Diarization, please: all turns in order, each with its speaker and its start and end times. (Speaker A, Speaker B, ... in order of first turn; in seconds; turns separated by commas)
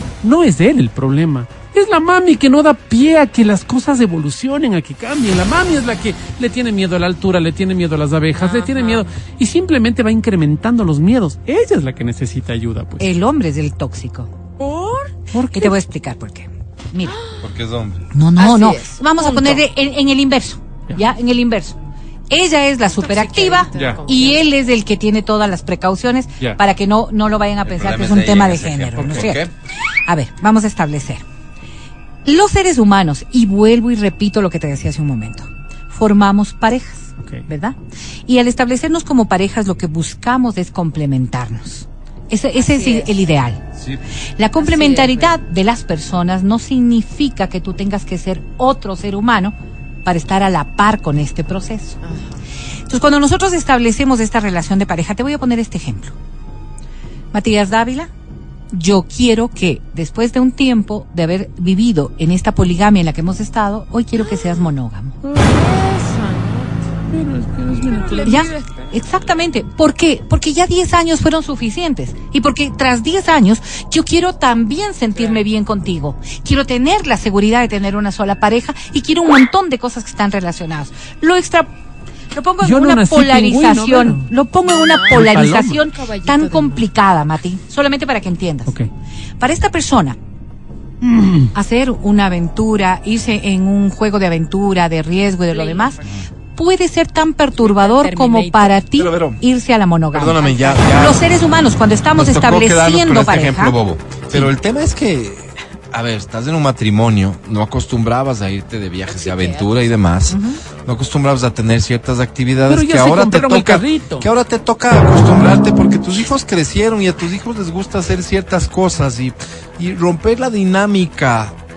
Speaker A: 0.2-13.1, Speaker B: 8.4-9.1, Speaker C: 13.0-14.3, Speaker B: 14.6-15.1, Speaker A: 15.3-15.7, Speaker C: 15.5-17.2, Speaker B: 17.0-17.4, Speaker D: 17.4-18.1, Speaker C: 18.1-21.8, Speaker B: 18.4-19.6, Speaker C: 22.3-29.5, Speaker B: 22.9-24.5, Speaker A: 23.7-24.0, Speaker D: 27.6-29.5, Speaker A: 29.0-29.3, Speaker C: 30.1-31.2, Speaker C: 32.2-43.6, Speaker B: 42.5-43.1, Speaker C: 44.4-52.0, Speaker B: 44.6-45.4, Speaker B: 52.0-52.4, Speaker C: 52.9-56.1, Speaker C: 57.3-58.1, Speaker C: 58.7-65.2, Speaker B: 64.2-64.7, Speaker B: 65.3-66.8, Speaker A: 67.1-68.5, Speaker B: 67.8-69.2, Speaker C: 68.2-81.7, Speaker B: 75.1-75.4, Speaker C: 82.3-88.7, Speaker A: 82.6-84.3, Speaker B: 84.7-86.9, Speaker A: 85.1-85.8, Speaker C: 89.4-90.2, Speaker A: 91.0-91.5, Speaker C: 91.5-96.0, Speaker B: 95.5-96.0, Speaker C: 96.5-103.8, Speaker B: 97.6-98.8, Speaker D: 99.0-99.4, Speaker D: 100.1-101.2, Speaker D: 102.2-121.6, Speaker B: 109.1-109.7, Speaker C: 110.3-110.6, Speaker A: 112.7-114.3